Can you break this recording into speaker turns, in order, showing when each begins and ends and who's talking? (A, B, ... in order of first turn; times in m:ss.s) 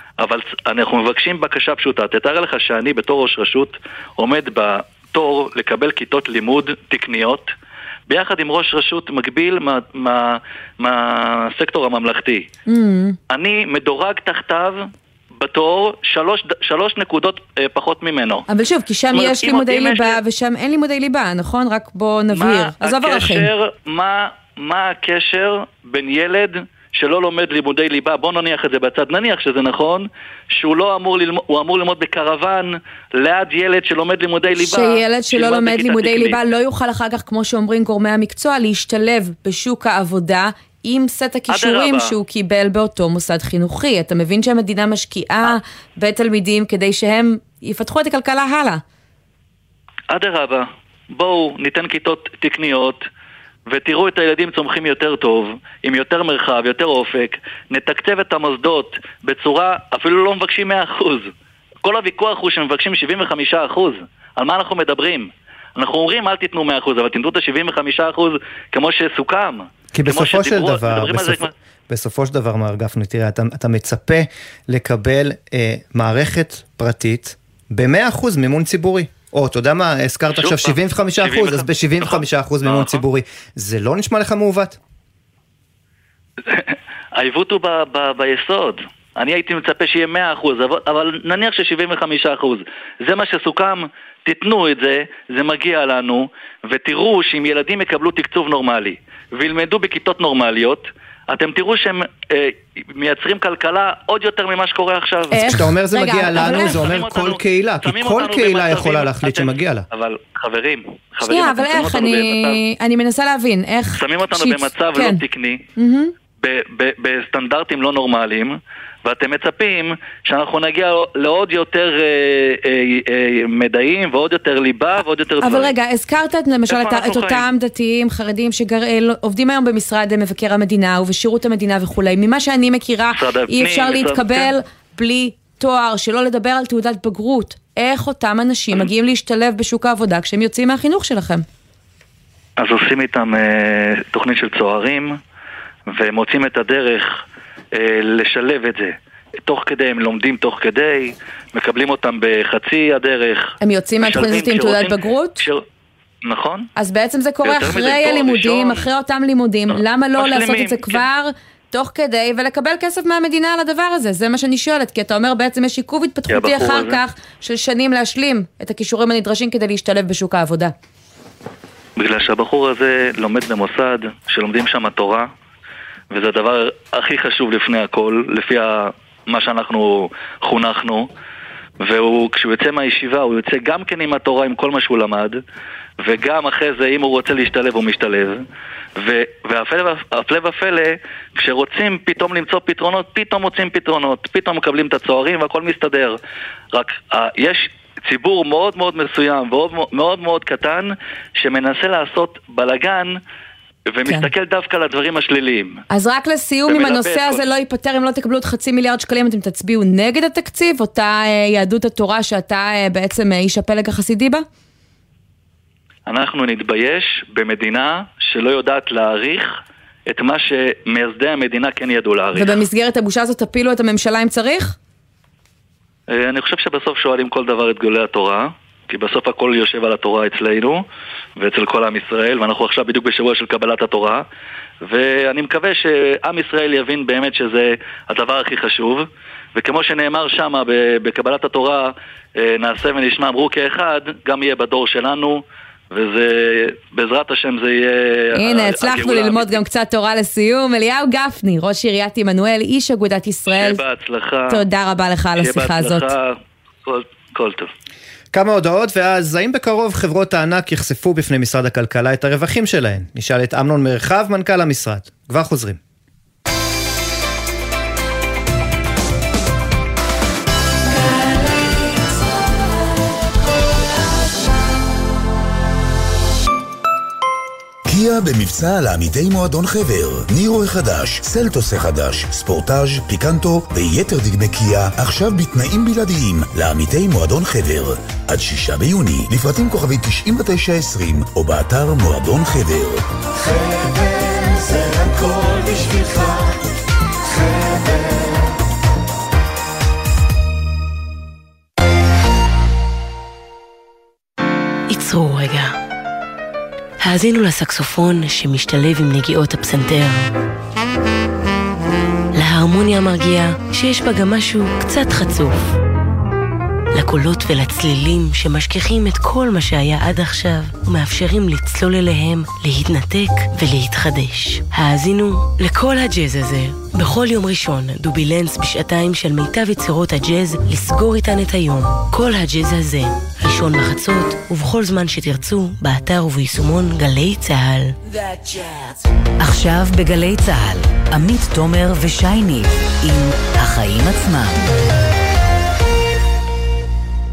0:00.2-0:07.5 A
0:08.1-0:12.5 A
0:12.7-0:13.2 B
0:13.3-0:18.4 A
0:18.5-0:23.5 B
0:19.1-0:20.2 A
0:22.3-0:36.4 A
0:34.6-0:48.8 B
0:41.5-0:42.1 A
0:50.1-0:53.1 A
0:53.7-1:01.3 A
1:01.8-1:11.5 A
1:09.9-1:24.8 C
1:20.4-1:23.0 A
1:26.5-1:45.6 A
1:45.3-1:47.0 B
1:45.5-1:49.9 C
1:46.3-1:52.6 A
1:51.2-1:55.2 B
1:54.0-1:55.6 A
1:55.8-1:56.1 B
1:56.4-2:05.7 A
2:05.4-2:21.4 B
2:06.7-2:07.5 A
2:13.1-2:14.5 A
2:22.6-2:25.2 A
2:25.9-2:27.2 A
2:27.8-2:35.6 A
2:33.6-2:35.4 B
2:36.2-2:36.7 A
2:36.8-2:50.7 B
2:37.4-2:38.9 A
2:40.2-2:41.0 A
2:46.3-2:47.0 A
2:52.0-2:55.3 A
2:56.1-3:01.1 A
3:01.8-3:05.4 A
3:06.0-3:08.4 A
3:09.0-3:16.2 A
3:16.7-3:23.2 A
3:23.9-3:25.8 A
3:25.9-3:34.4 B
3:26.7-3:27.4 A
3:36.1-3:42.5 A
3:42.3-3:44.8 B
3:46.1-3:50.8 A
3:51.4-3:54.2 A
3:54.8-4:09.6 A
4:08.4-4:13.8 B
4:13.5-4:14.6 A
4:14.5-4:16.1 B
4:15.4-4:17.7 A
4:18.3-4:25.8 C
4:37.9-4:56.6 D
4:57.3-4:58.4 D
5:04.9-5:05.8 E
5:07.0-5:10.3 E
5:12.4-5:15.8 E
5:16.9-5:38.0 E
5:38.3-5:38.8 F
5:39.4-5:44.6 F